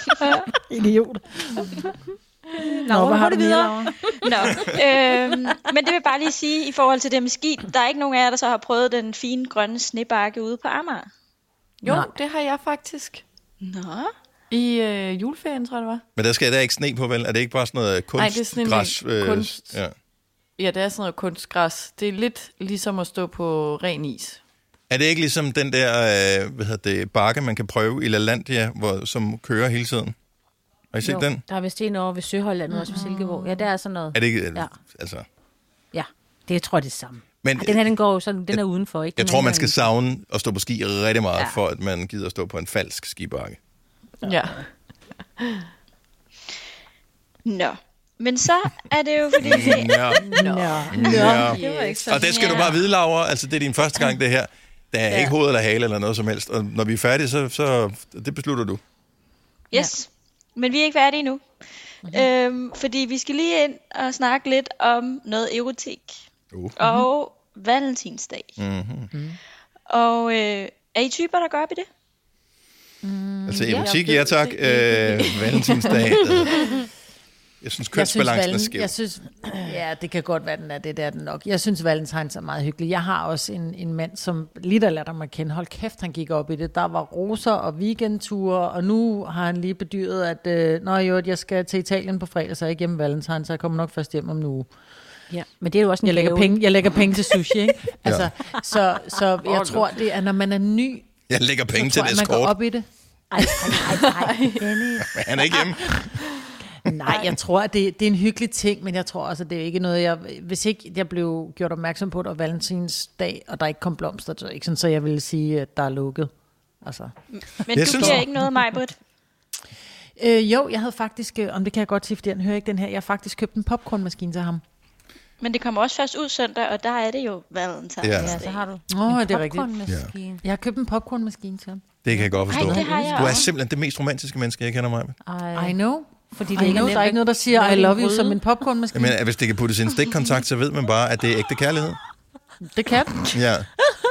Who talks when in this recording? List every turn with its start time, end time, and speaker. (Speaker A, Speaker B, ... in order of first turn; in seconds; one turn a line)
Speaker A: 0.2-1.9
Speaker B: 2.5-4.6
Speaker A: 2.9-4.0
Speaker C: 4.2-11.1
Speaker D: 11.8-13.2
Speaker C: 13.6-14.1
Speaker D: 14.5-16.0
Speaker E: 16.2-19.9
Speaker D: 18.2-19.8
Speaker D: 20.6-24.4
Speaker E: 24.9-30.1
Speaker E: 30.9-31.4
Speaker B: 31.0-34.7
Speaker A: 32.7-33.7
Speaker E: 34.1-35.3
Speaker B: 35.9-39.8
Speaker E: 37.4-37.9
Speaker E: 39.2-43.6
Speaker D: 44.2-44.7
Speaker D: 45.4-45.7
Speaker C: 47.5-50.2
Speaker E: 49.4-58.8
Speaker D: 50.2-52.2
Speaker A: 50.4-51.6
Speaker B: 51.5-52.6
Speaker C: 52.2-52.8
Speaker C: 59.7-61.4
Speaker C: 62.0-66.2
Speaker C: 66.8-68.6
Speaker E: 68.6-69.1
Speaker A: 69.1-69.4
Speaker C: 69.9-71.9
Speaker A: 73.0-73.9
Speaker E: 73.5-76.7
Speaker D: 73.7-76.3
Speaker E: 77.6-78.9
Speaker A: 77.9-94.7
Speaker B: 95.3-96.6
Speaker A: 96.0-101.1
Speaker E: 98.0-98.3
Speaker D: 99.4-100.0
Speaker E: 101.3-102.6
Speaker A: 101.7-102.9
Speaker B: 103.3-104.9
Speaker D: 104.1-104.7
Speaker A: 104.7-105.2
Speaker E: 105.0-106.1
Speaker A: 106.8-116.3
Speaker A: 116.8-117.1
Speaker C: 117.3-119.0
Speaker E: 117.7-118.3
Speaker A: 117.9-118.2
Speaker A: 120.2-124.6
Speaker C: 125.4-128.6
Speaker E: 128.0-128.4
Speaker B: 128.2-130.4
Speaker A: 128.9-129.7
Speaker E: 129.9-130.1
Speaker A: 130.4-131.8
Speaker E: 132.0-135.2
Speaker B: 132.1-132.7
Speaker C: 132.5-133.5
Speaker A: 132.6-132.9
Speaker B: 135.2-135.8
Speaker A: 135.6-139.2
Speaker B: 136.3-138.4
Speaker E: 138.9-142.0
Speaker A: 142.6-143.3
Speaker E: 143.3-143.7